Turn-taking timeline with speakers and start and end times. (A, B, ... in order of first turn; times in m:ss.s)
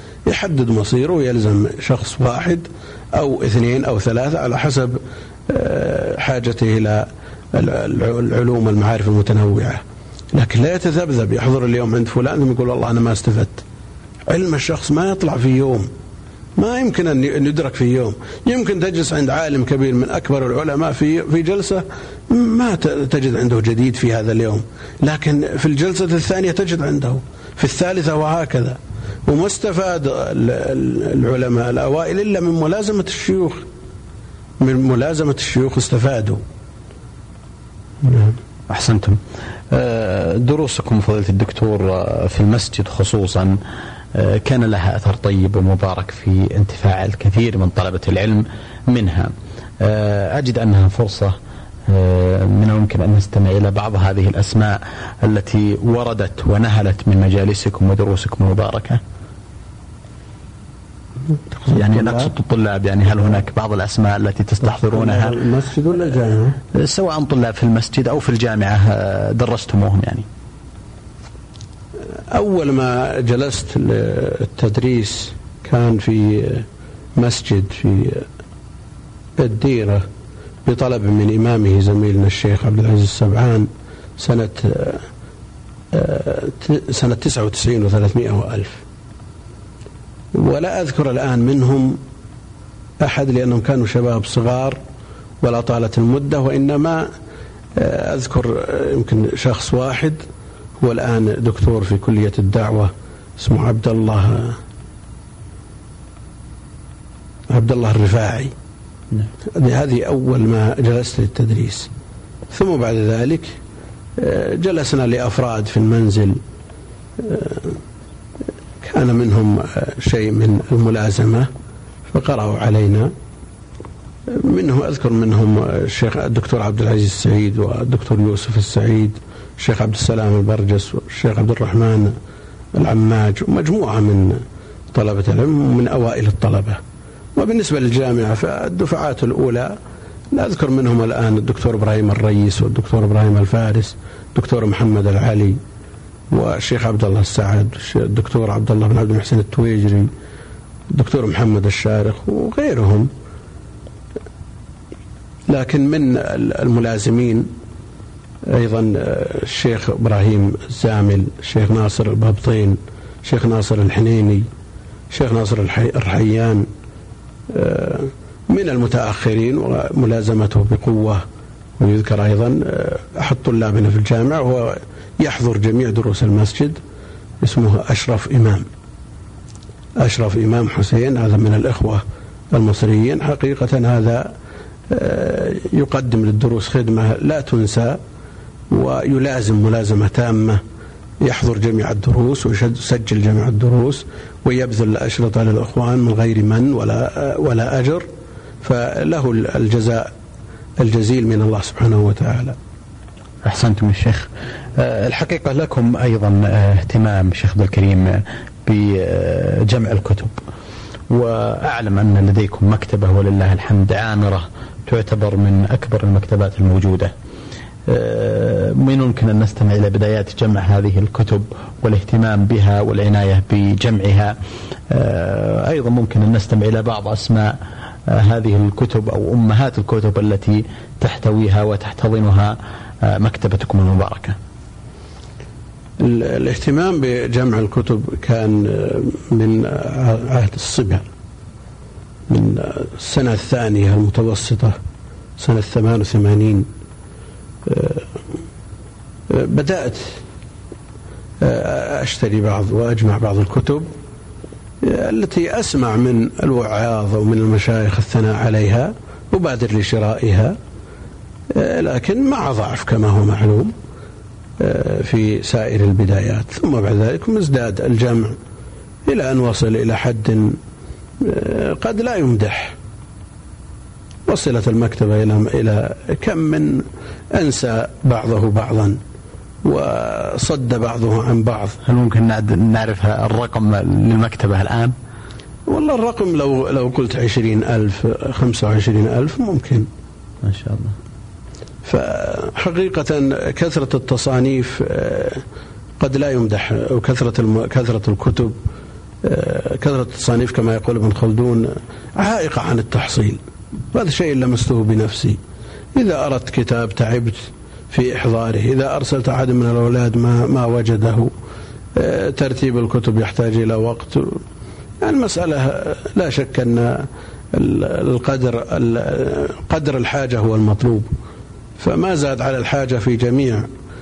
0:00.3-0:09.8 A
0:10.3-0:13.6 A
0:14.3-0:15.9 A
0:16.6-0:33.6 A
0:34.6-0:36.4 A
0:38.0-0:38.4 A
0:38.7-0:39.2 B
0:39.7-0:43.6 B
0:44.1-0:51.4 B
0:51.9-0:59.0 B
1:01.5-1:02.3 A
1:01.7-1:05.4 B
1:04.6-1:06.6 A
1:06.8-1:10.3 B
1:12.3-1:16.7 A
1:17.2-1:18.3 A
1:19.4-1:20.0 A
1:20.6-1:25.0 A
1:25.9-1:28.8 A
1:30.4-1:32.0 A
1:33.0-1:34.8 A
1:35.4-1:37.1 A
1:37.8-1:40.2 A
1:40.8-1:44.6 A
1:47.5-1:48.5 A
1:49.5-1:51.9 A
1:52.5-1:53.6 A
1:54.2-1:56.4 A
1:57.2-1:57.8 A
1:58.8-2:01.5 A
2:02.1-2:03.1 A
2:04.3-2:12.1 A
2:12.8-2:14.4 A
2:14.9-2:16.8 A
2:17.4-2:19.8 A
2:20.3-2:25.6 A
2:26.3-2:30.1 A
2:30.9-2:33.1 A
2:35.5-2:37.5 A
2:38.5-2:44.5 A
2:45.1-2:46.7 A
2:47.5-2:51.2 A
2:51.8-2:56.8 A
2:57.4-2:58.6 A
3:00.0-3:02.0 A
3:02.5-3:04.3 A
3:04.9-3:08.0 A
3:08.7-3:10.6 A
3:11.2-3:18.1 A
3:18.6-3:20.1 A
3:20.8-3:22.6 A
3:23.4-3:30.4 B
3:31.1-3:37.1 B
3:37.9-3:44.4 B
3:44.9-3:54.4 B
3:56.0-4:01.1 A
4:02.3-4:04.8 A
4:05.4-4:06.7 A
4:07.7-4:08.1 A
4:09.3-4:10.2 A
4:11.4-4:13.9 A
4:14.8-4:20.6 A
4:21.5-4:23.7 A
4:24.6-4:28.4 A
4:29.1-4:30.6 A
4:31.2-4:32.8 A
4:34.3-4:39.0 A
4:39.6-4:41.8 A
4:41.8-4:45.0 B
4:45.7-4:49.9 A
4:50.4-4:51.0 B
4:51.8-4:55.4 A
4:56.0-4:58.6 A
4:59.2-5:03.4 A
5:03.9-5:05.4 A
5:06.0-5:11.3 A
5:12.0-5:14.4 A
5:15.0-5:21.1 A
5:21.8-5:23.7 A